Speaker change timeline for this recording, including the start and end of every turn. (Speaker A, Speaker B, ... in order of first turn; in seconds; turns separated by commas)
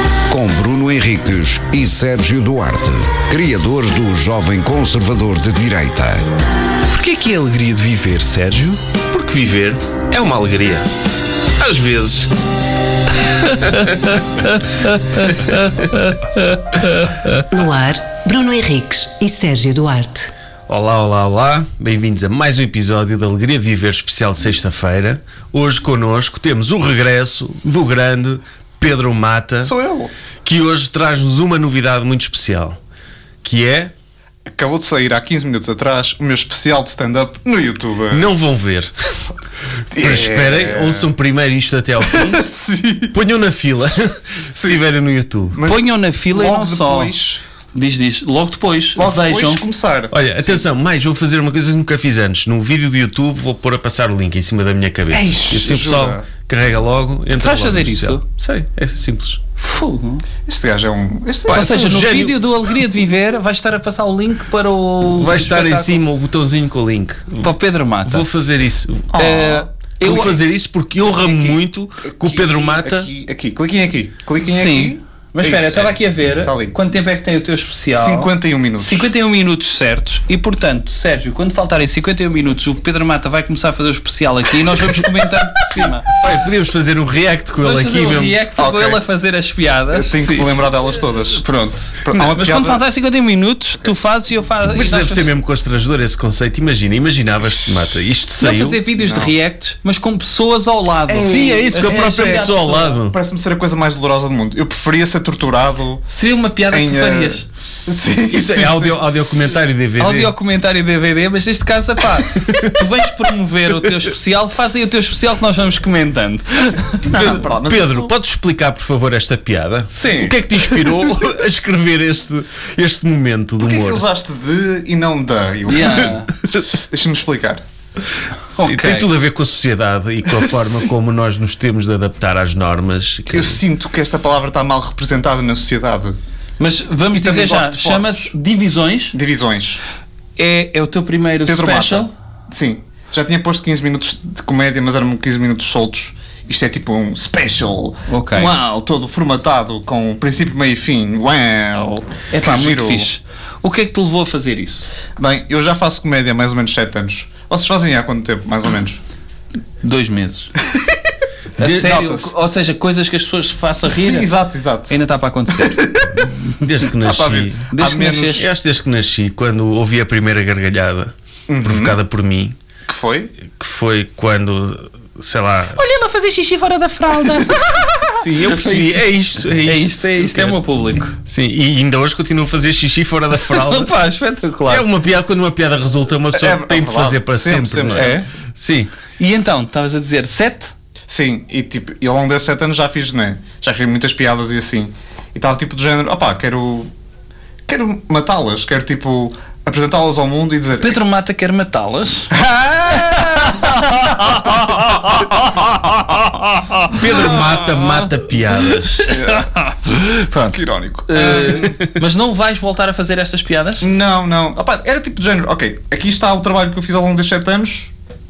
Speaker A: 0.3-6.3, Speaker B: 6.9-8.8, Speaker C: 9.1-10.9, Speaker C: 11.6-12.3, Speaker C: 13.3-14.1, Speaker B: 15.2-16.6, Speaker D: 17.5-20.3, Speaker C: 20.7-29.7, Speaker E: 29.6-30.1, Speaker C: 30.4-32.8, Speaker C: 33.4-33.9, Speaker E: 34.5-38.3, Speaker C: 38.1-39.2, Speaker E: 39.9-41.1, Speaker C: 39.9-42.4, Speaker E: 42.0-43.1, Speaker C: 43.1-45.6, Speaker E: 44.5-44.8, Speaker E: 45.5-47.4, Speaker B: 45.6-47.1, Speaker B: 47.7-49.6, Speaker E: 49.0-50.6, Speaker C: 50.1-59.4, Speaker E: 55.1-56.2, Speaker B: 57.4-58.2, Speaker B: 59.6-60.2, Speaker E: 60.5-61.9, Speaker C: 61.5-62.6, Speaker B: 61.5-66.0, Speaker C: 65.1-69.1, Speaker B: 67.4-68.3, Speaker E: 69.1-70.3, Speaker B: 69.1-70.3, Speaker C: 70.0-73.1, Speaker E: 71.1-76.8, Speaker B: 74.4-86.0, Speaker E: 78.0-79.1, Speaker C: 85.7-88.4, Speaker B: 87.6-95.2, Speaker E: 88.5-89.0, Speaker E: 89.9-91.4, Speaker E: 92.0-92.8, Speaker C: 94.7-98.8, Speaker B: 98.4-102.9, Speaker E: 99.0-99.3, Speaker E: 101.1-106.0, Speaker C: 101.2-103.2, Speaker B: 106.1-107.5, Speaker E: 106.7-109.5, Speaker C: 108.3-110.3, Speaker B: 110.0-117.4, Speaker C: 112.3-112.9, Speaker E: 116.7-118.1, Speaker C: 117.1-124.0, Speaker E: 119.9-120.4, Speaker E: 123.6-127.6, Speaker B: 125.7-126.3, Speaker B: 128.5-129.1, Speaker C: 128.5-133.6, Speaker E: 133.3-136.2, Speaker B: 136.6-139.2, Speaker E: 137.1-138.3, Speaker E: 139.1-139.8, Speaker B: 140.4-142.1, Speaker E: 141.4-153.1, Speaker B: 148.1-148.6, Speaker B: 152.3-154.8, Speaker E: 155.2-159.0, Speaker B: 159.8-160.5, Speaker B: 161.6-164.3, Speaker E: 161.6-162.3, Speaker E: 163.9-164.9, Speaker B: 164.9-165.8, Speaker E: 165.5-166.2, Speaker C: 166.6-167.7, Speaker E: 166.9-168.4, Speaker B: 167.7-168.5, Speaker C: 168.3-172.6, Speaker E: 171.5-172.0, Speaker E: 172.8-173.3, Speaker C: 173.4-175.8, Speaker B: 175.8-178.9, Speaker C: 178.2-180.6, Speaker B: 179.6-181.2, Speaker C: 181.2-183.9, Speaker B: 183.4-184.8, Speaker C: 184.7-188.9, Speaker E: 186.3-188.2, Speaker B: 187.9-188.2, Speaker B: 189.2-190.7, Speaker E: 191.1-196.9, Speaker E: 197.7-201.0, Speaker B: 200.8-208.0, Speaker E: 202.3-205.4, Speaker C: 206.9-209.1, Speaker B: 209.0-213.9, Speaker E: 209.1-209.5, Speaker E: 210.5-211.7, Speaker E: 213.8-217.9